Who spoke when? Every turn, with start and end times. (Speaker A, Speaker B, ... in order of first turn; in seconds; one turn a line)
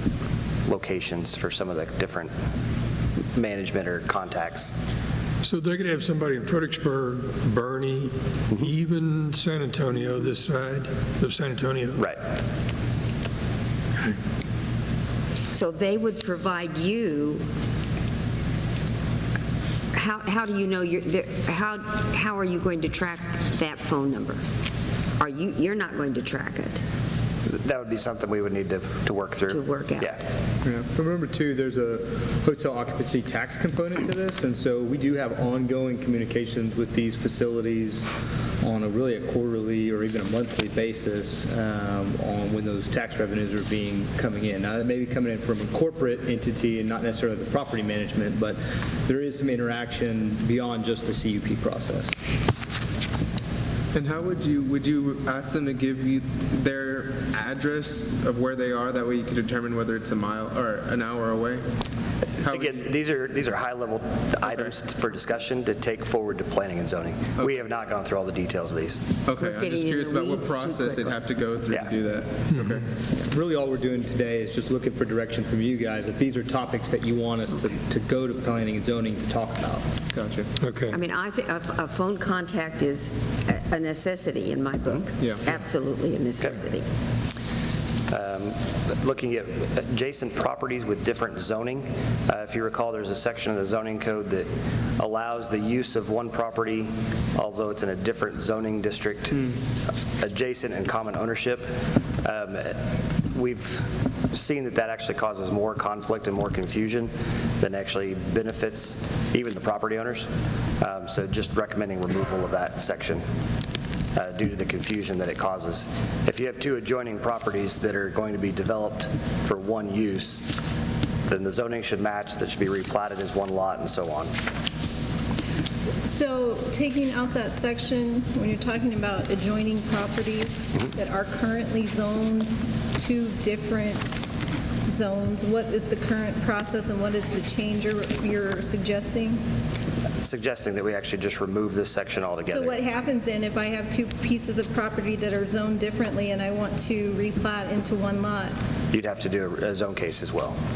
Speaker A: 0.7-2.3
Speaker A: 3.4-4.7
Speaker B: 5.4-12.0
Speaker C: 15.5-17.5
Speaker C: 19.9-24.4
Speaker C: 25.2-26.8
Speaker A: 27.5-30.2
Speaker C: 29.5-30.1
Speaker D: 30.6-38.1
Speaker D: 38.6-52.1
Speaker E: 53.9-61.6
Speaker E: 62.4-62.9
Speaker A: 62.5-69.0
Speaker E: 64.4-64.7
Speaker E: 69.2-72.9
Speaker C: 69.4-71.2
Speaker D: 73.2-79.9
Speaker E: 80.1-80.5
Speaker B: 80.6-81.0
Speaker C: 80.9-86.8
Speaker E: 85.2-85.5
Speaker A: 88.1-99.5
Speaker A: 100.2-110.3
Speaker A: 110.8-113.2
Speaker A: 114.2-120.5
Speaker A: 121.3-124.3
Speaker F: 126.0-134.2
Speaker F: 134.9-139.4
Speaker A: 140.2-142.8
Speaker F: 142.5-148.6
Speaker A: 148.9-150.6